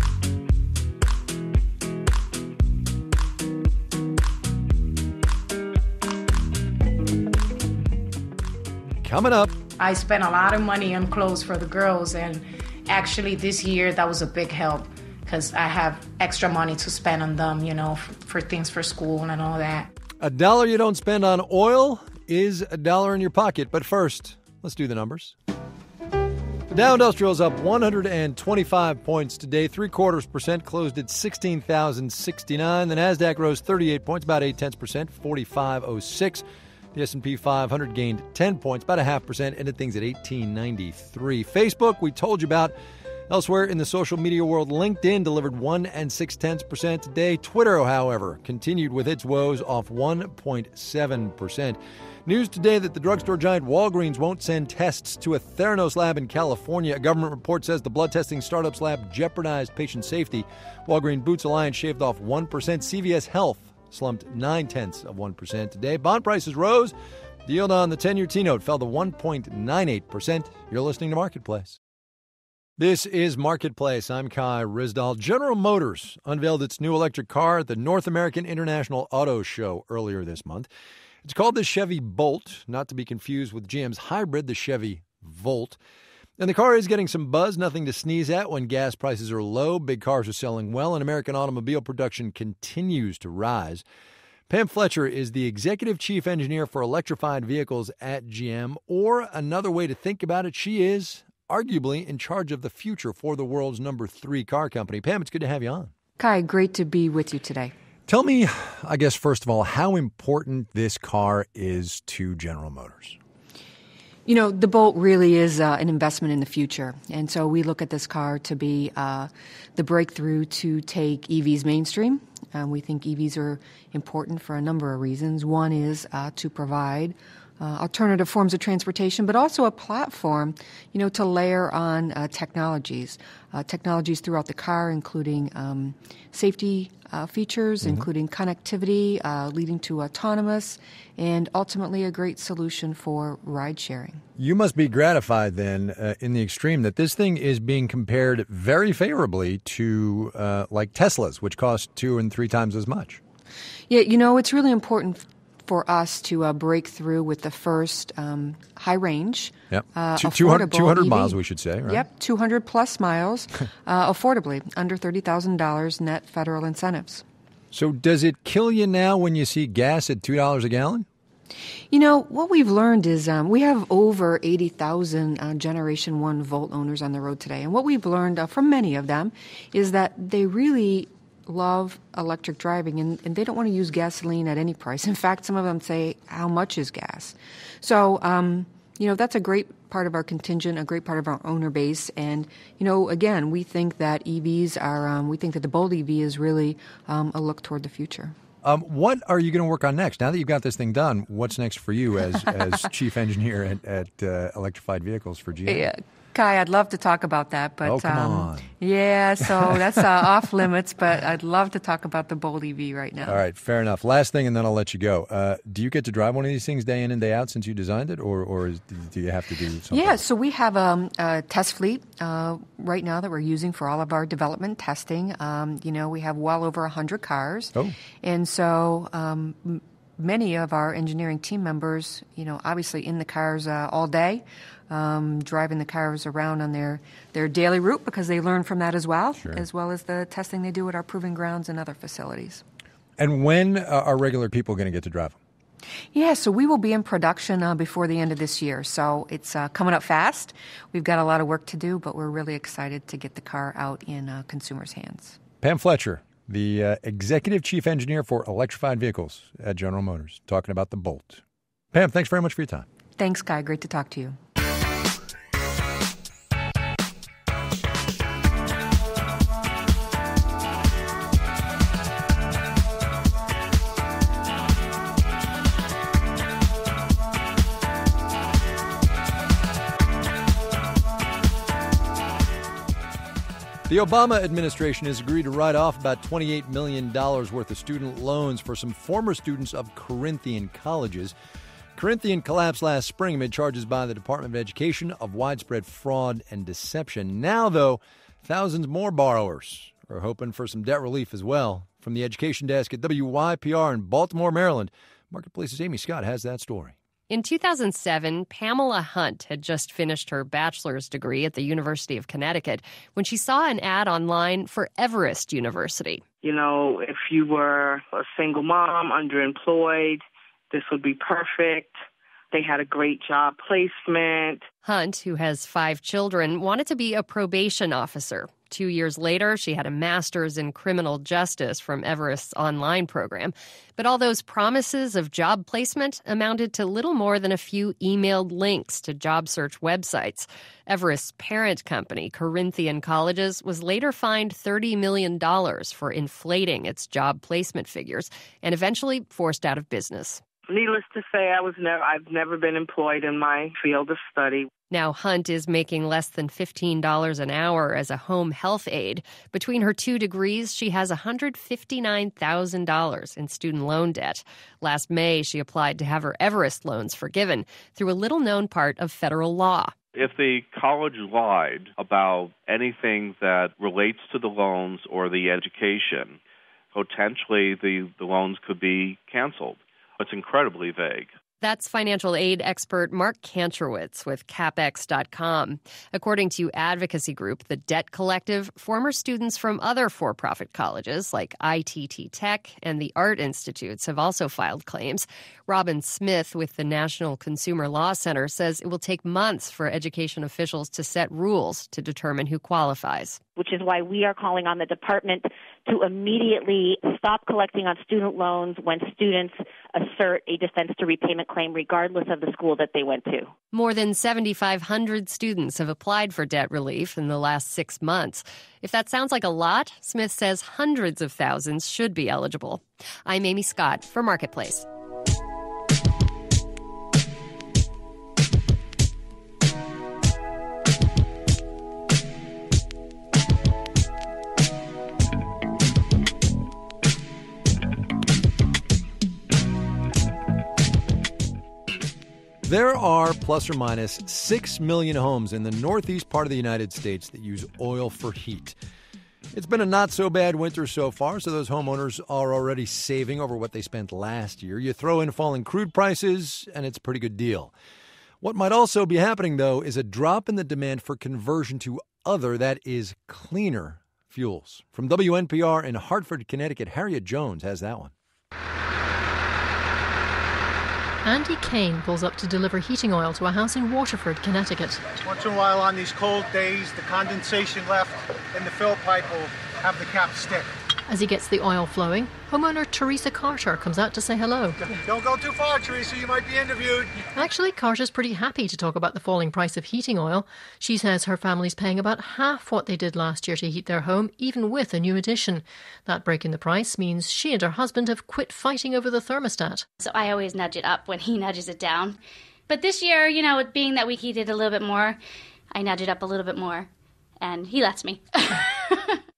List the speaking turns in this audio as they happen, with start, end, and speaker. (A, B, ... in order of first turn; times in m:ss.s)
0:09.0-0:09.5 A
0:09.8-0:19.9 B
0:20.2-0:25.3 A
0:26.7-0:42.7 A
0:43.3-1:06.9 A
1:07.4-1:11.8 A
1:12.8-1:20.7 A
1:21.2-1:25.8 A
1:26.4-1:33.8 A
1:34.5-1:45.9 A
1:46.2-1:47.7 C
1:48.1-1:53.2 A
1:54.2-2:24.2 C
2:17.8-2:18.1 A
2:24.4-2:33.2 A
2:33.9-2:47.2 C
2:39.7-2:42.0 A
2:47.7-2:51.0 A
2:51.9-3:18.3 C
3:18.6-3:25.8 A
3:25.7-3:33.4 C
3:27.8-3:28.7 A
3:33.2-3:40.2 A
3:39.9-4:02.6 C
4:03.2-4:05.4 A
4:06.1-4:15.4 C
4:15.6-4:21.4 A
4:21.9-4:22.8 A
4:23.2-4:24.4 C
4:43.9-4:51.3 A
4:52.0-5:07.0 A
5:07.3-5:16.2 D
5:16.4-5:22.0 E
5:22.5-5:24.6 E
5:24.8-5:50.4 D
5:50.7-5:54.7 E
5:54.9-6:09.9 D
6:10.1-6:16.4 F
6:16.9-6:21.3 F
6:21.6-6:43.4 D
6:43.6-6:53.5 G
6:53.7-7:04.8 D
7:22.6-7:28.8 A
7:29.5-7:37.7 A
7:38.4-7:48.1 A
7:51.2-7:55.0 H
7:55.4-8:00.6 I
8:01.1-8:04.9 H
8:05.2-8:07.1 I
8:07.3-8:19.8 H
8:20.0-8:25.2 J
8:25.7-8:26.9 J
8:27.4-8:29.2 J